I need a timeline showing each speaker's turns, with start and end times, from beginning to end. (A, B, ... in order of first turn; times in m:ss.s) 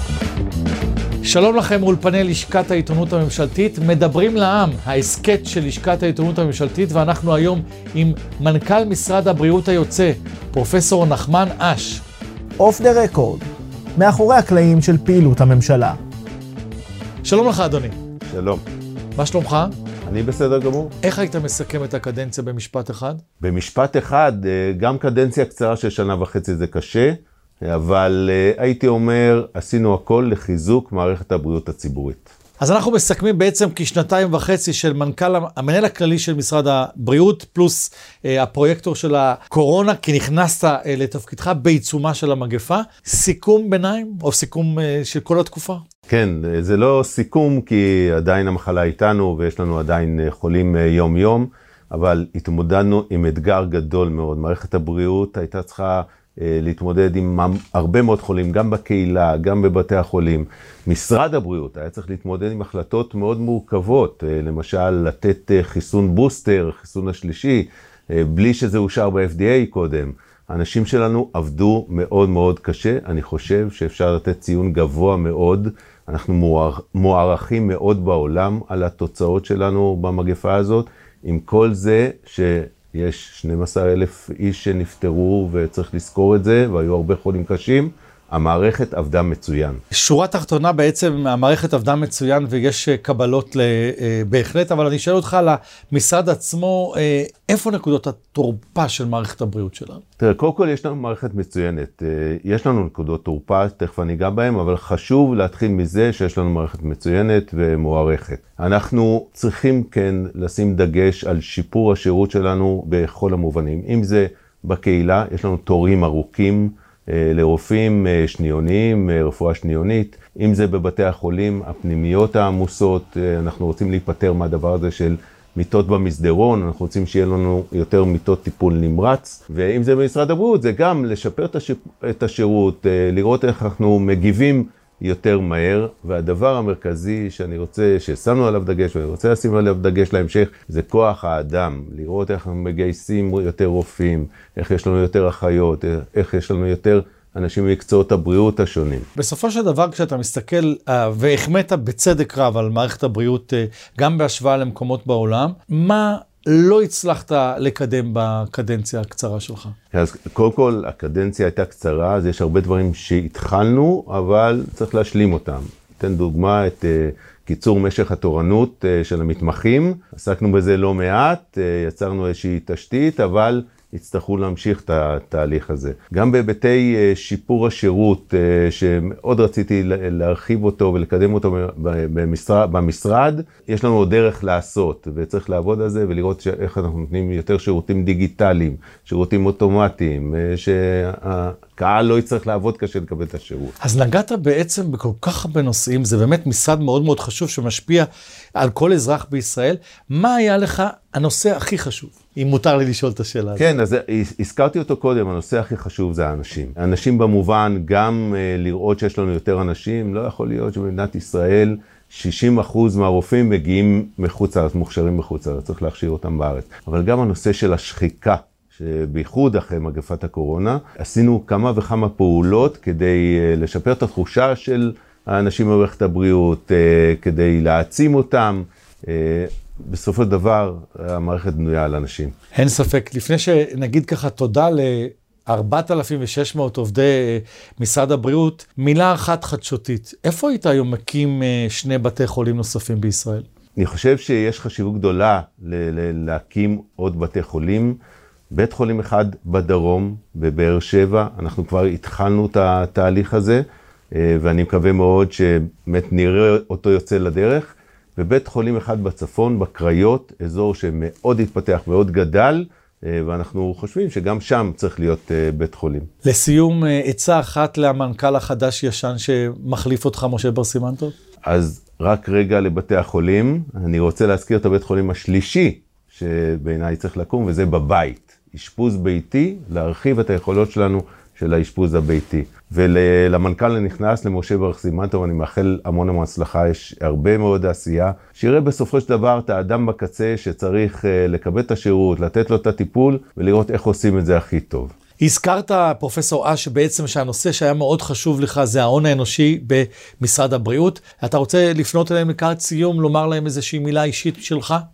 0:01.2-0:12.0 A
0:12.6-0:16.0 B
0:17.2-0:18.0 A
0:18.2-0:18.6 C
0:19.2-0:19.7 A
0:20.1-0:20.9 C
0:21.0-0:23.2 A
0:23.4-0:32.3 C
0:32.6-0:45.8 A
0:46.1-1:29.8 C
1:29.9-1:40.0 A
1:40.2-2:29.1 C
2:29.2-2:39.8 A
2:39.9-3:13.7 C
3:13.8-3:23.7 A
3:23.6-3:52.3 C
3:52.5-4:03.5 A
4:03.8-4:08.0 C
4:08.5-4:26.1 C
4:26.2-4:31.1 A
4:31.5-4:54.9 C
4:55.2-5:04.8 A